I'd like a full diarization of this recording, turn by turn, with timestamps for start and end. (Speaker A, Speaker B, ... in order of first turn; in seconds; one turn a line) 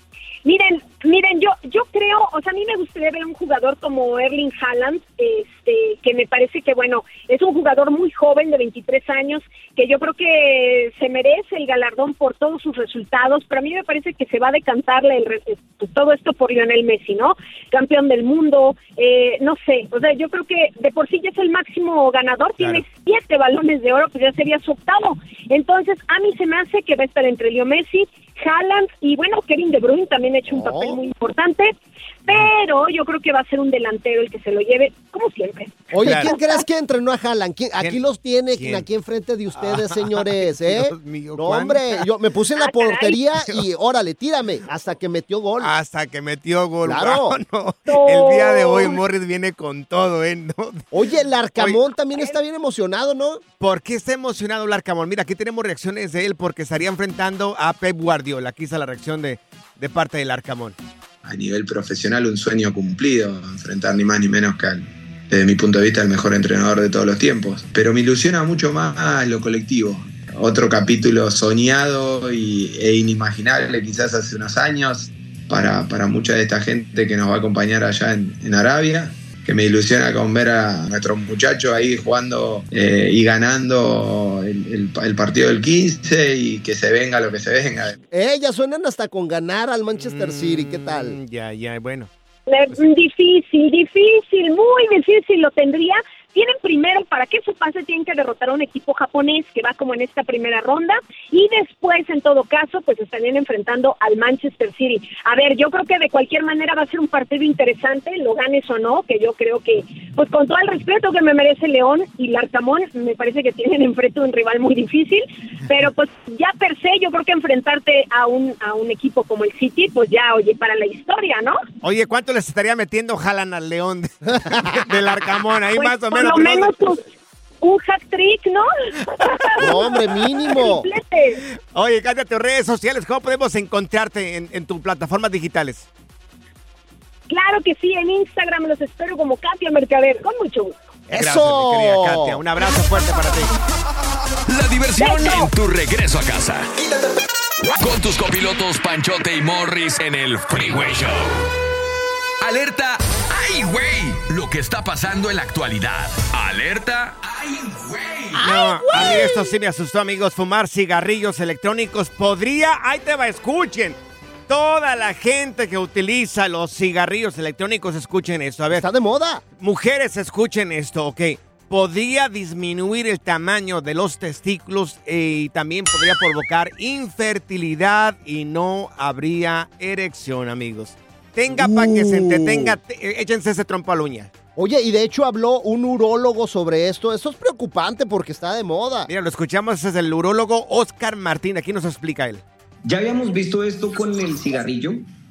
Speaker A: 0.4-31.7
Speaker B: 22.6-22.8
Speaker C: 30.5-31.0
Speaker A: 32.2-36.4
Speaker B: 32.3-32.5
Speaker C: 35.9-45.7
Speaker B: 36.0-36.3
Speaker B: 38.5-38.9
Speaker B: 39.5-42.0
Speaker A: 42.6-43.2
Speaker B: 45.6-50.8
Speaker C: 46.8-47.4
Speaker A: 47.9-49.0
Speaker C: 50.9-53.4
Speaker B: 53.6-60.8
Speaker D: 61.2-88.0
Speaker C: 88.1-91.2
Speaker B: 89.9-92.1
Speaker A: 92.5-121.6
Speaker B: 121.8-126.7
Speaker C: 124.5-124.8
Speaker A: 125.8-127.0
Speaker A: 127.6-131.4
Speaker C: 129.6-130.9
Speaker B: 131.7-135.9
Speaker A: 137.3-140.7
Speaker B: 141.1-143.5
Speaker C: 141.1-142.4
Speaker E: 144.4-146.7
Speaker A: 145.0-145.5
Speaker E: 147.8-151.4
Speaker E: 152.4-158.4
Speaker B: 158.4-164.0
Speaker B: 164.5-168.8
Speaker C: 168.7-169.4
Speaker B: 169.6-184.3
Speaker C: 181.5-182.8
Speaker C: 184.6-189.1
Speaker B: 189.1-192.4
Speaker F: 192.8-195.1